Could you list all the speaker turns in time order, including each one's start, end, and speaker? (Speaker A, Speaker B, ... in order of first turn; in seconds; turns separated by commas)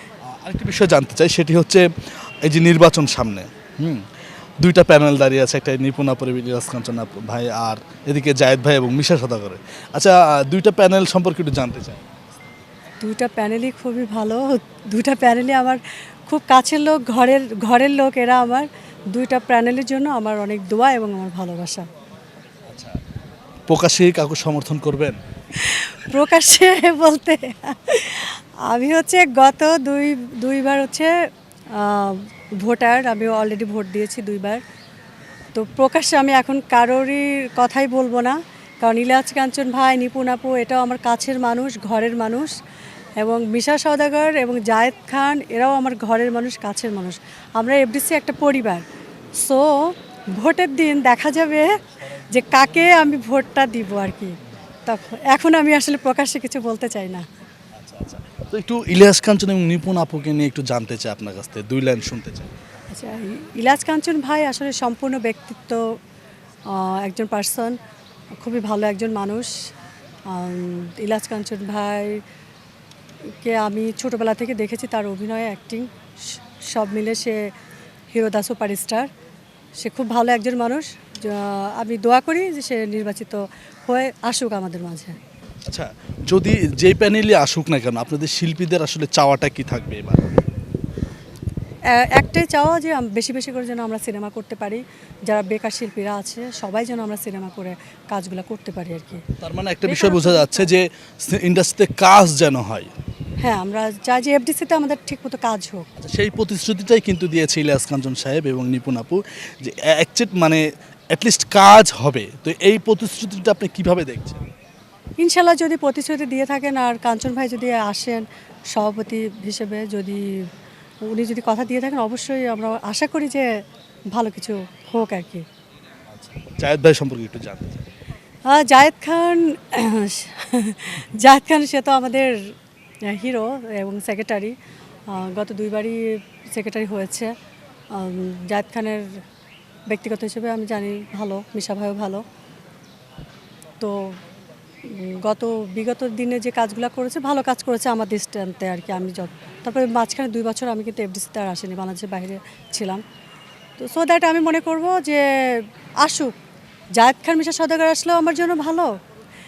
Speaker A: 0.2-1.9, Speaker A: 2.4-4.0, Speaker A: 4.6-12.2, Speaker B: 13.0-21.9, Speaker A: 22.7-23.0, Speaker A: 23.7-25.2, Speaker B: 25.6-31.1, Speaker B: 31.7-34.6, Speaker B: 35.5-42.5, Speaker B: 43.2-48.8, Speaker B: 49.4-57.2, Speaker A: 57.8-62.5, Speaker B: 62.9-65.8, Speaker B: 66.7-67.8, Speaker B: 68.4-69.5, Speaker B: 70.3-72.2, Speaker B: 73.4-77.5, Speaker B: 78.1-79.1, Speaker B: 79.8-85.2, Speaker A: 85.7-90.3, Speaker B: 91.9-99.3, Speaker A: 99.4-102.9, Speaker B: 99.8-100.7, Speaker B: 103.4-105.9, Speaker A: 106.0-114.4, Speaker B: 115.2-120.3, Speaker B: 121.0-123.6, Speaker B: 124.1-125.4, Speaker A: 126.2-127.8, Speaker B: 128.5-132.4, Speaker B: 133.0-134.5, Speaker B: 135.1-137.3, Speaker B: 137.9-139.2, Speaker B: 139.9-142.2, Speaker B: 143.8-144.2, Speaker B: 144.8-153.0, Speaker B: 153.8-156.3, Speaker B: 156.9-158.9